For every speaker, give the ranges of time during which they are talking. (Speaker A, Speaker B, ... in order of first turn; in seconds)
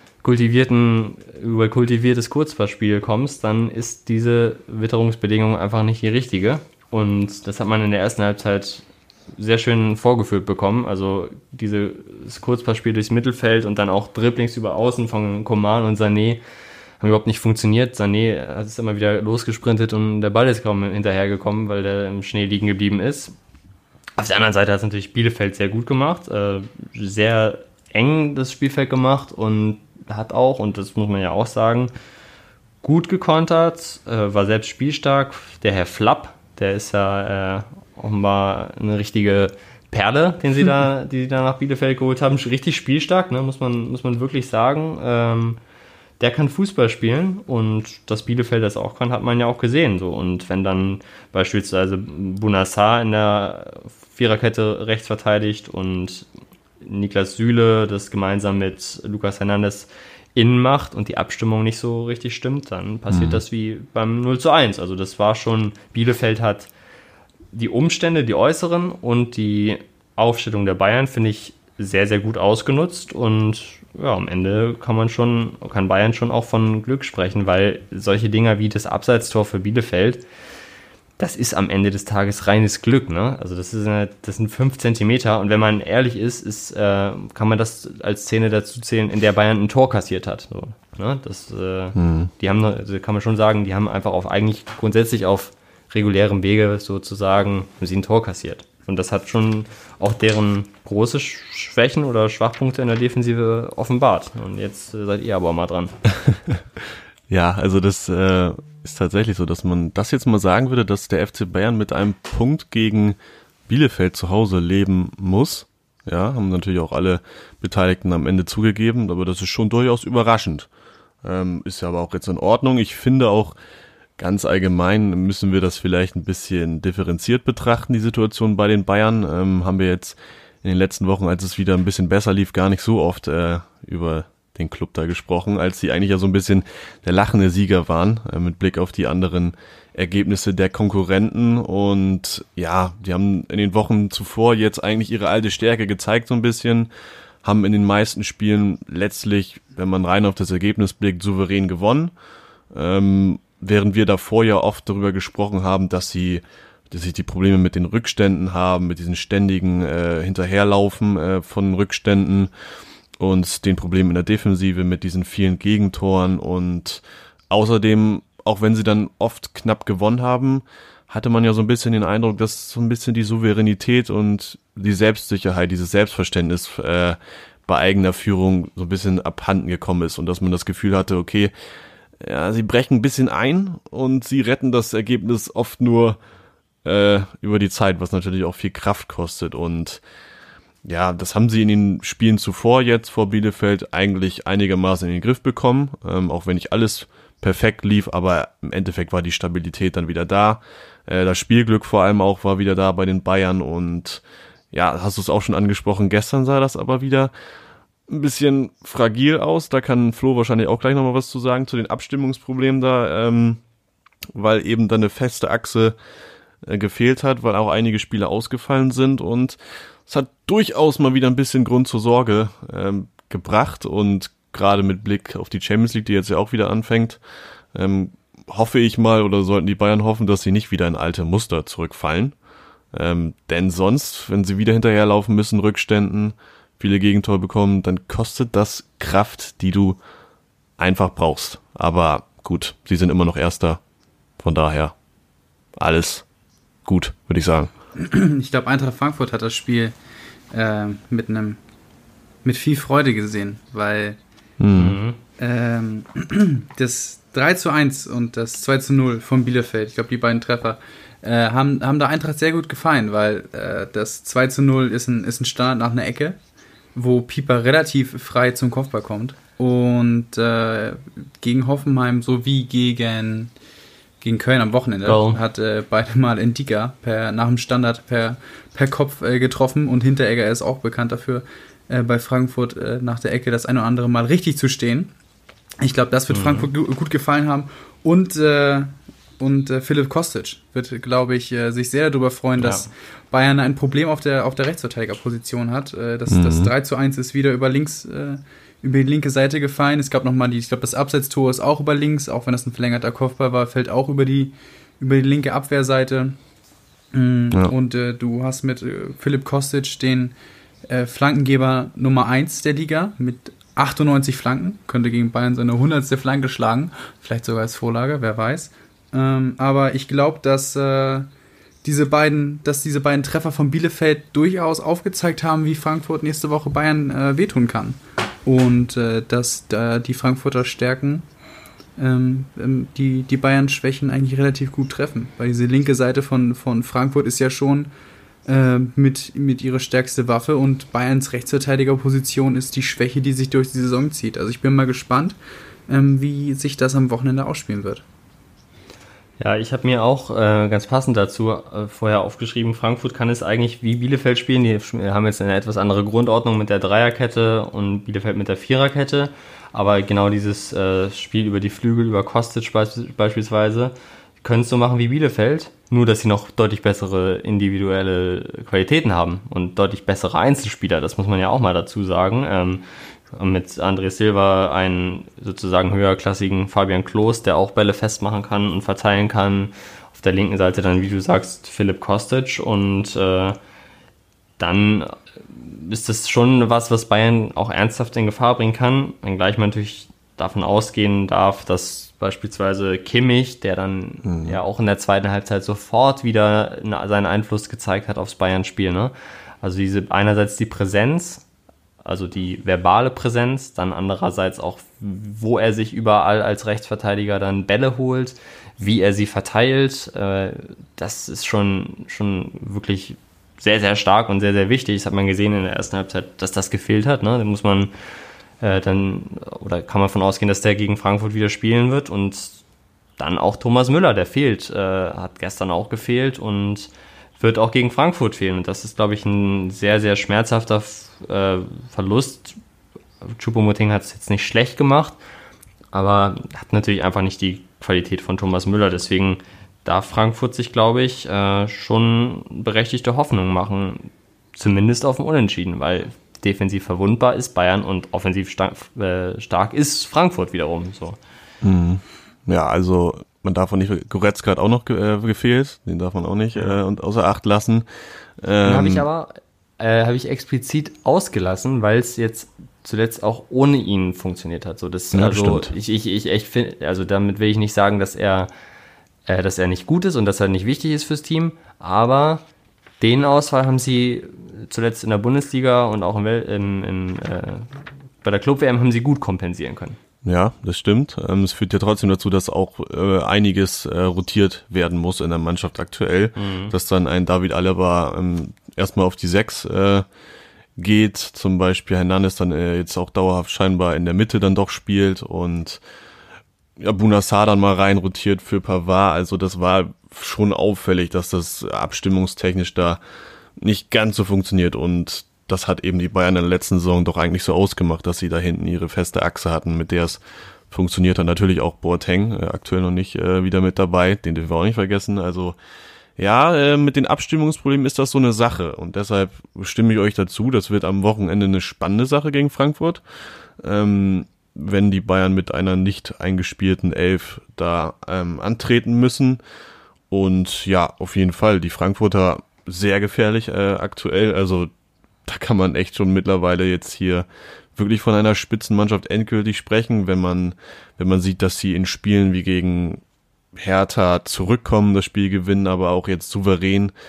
Speaker A: 0.2-16.4, 17.0-23.3, 24.2-31.9, 32.8-45.6, 46.2-56.3, 56.8-66.7, 67.5-80.2, 81.2-106.0, 254.7-255.2, 275.0-275.4, 286.3-286.7, 292.6-292.9, 349.4-383.6, 384.6-401.4, 402.0-417.9, 418.6-422.6, 423.2-432.6, 433.2-435.2, 435.9-451.2, 458.6-468.5, 469.3-472.4, 473.0-480.0, 486.4-486.7
Speaker B: 63.1-63.4, 92.0-92.3, 106.3-106.5, 107.3-113.2, 113.7-120.7, 121.2-123.5, 124.2-146.9, 147.4-152.1, 152.7-162.5, 163.2-181.5, 182.2-186.2, 186.8-190.0, 190.8-207.3, 208.1-213.6, 214.3-215.9, 216.6-227.2, 227.7-232.3, 232.9-240.0, 240.8-243.8, 244.4-244.9, 245.8-246.2, 246.8-247.7, 254.6-255.0, 296.3-296.7, 394.2-394.6, 451.6-457.8, 458.4-459.1, 465.1-465.7, 480.2-490.1, 490.8-495.8, 496.8-503.0, 503.6-515.6, 516.2-523.0, 523.6-529.4, 530.1-534.7, 535.2-543.0, 543.5-546.9
Speaker C: 248.0-249.9, 250.5-251.6, 252.4-254.2, 255.4-266.4, 266.9-273.5, 274.2-285.1, 285.8-306.4, 307.1-310.3, 310.9-321.3, 321.8-331.2, 332.0-337.9, 338.4-345.4, 345.9-348.0